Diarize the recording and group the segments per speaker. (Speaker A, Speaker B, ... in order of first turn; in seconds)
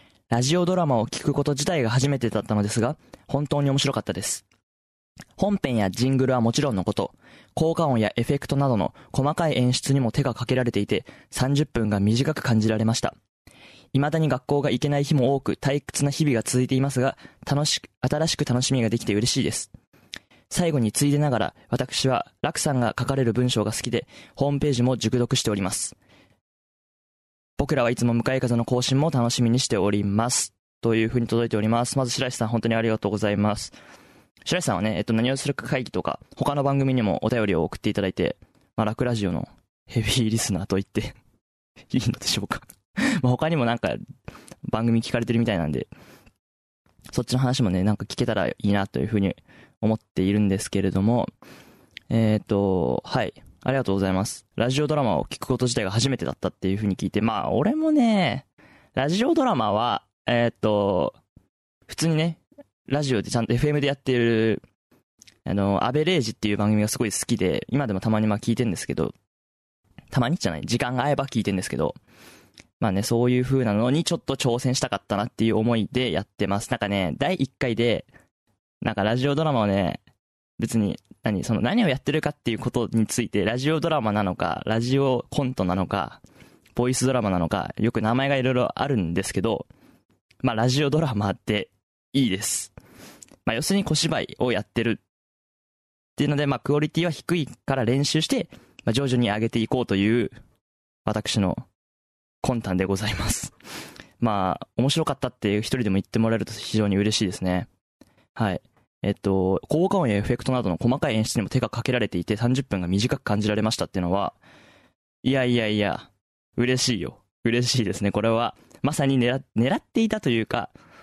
Speaker A: 0.3-4.4, 5.4-13.2, 13.9-19.7, 20.5-26.0, 27.6-33.8, 34.5-41.2, 41.9-44.0, 44.7-45.9, 47.1-51.3, 52.1-58.5, 59.0-61.2, 61.9-64.6, 65.5-69.1, 70.1-72.0, 72.8-78.1, 78.8-80.0, 80.6-86.2, 86.8-89.7, 90.4-92.7, 93.5-95.0, 96.2-100.4, 101.0-101.7, 102.4-103.5, 104.2-107.7, 108.4-114.4, 115.2-120.7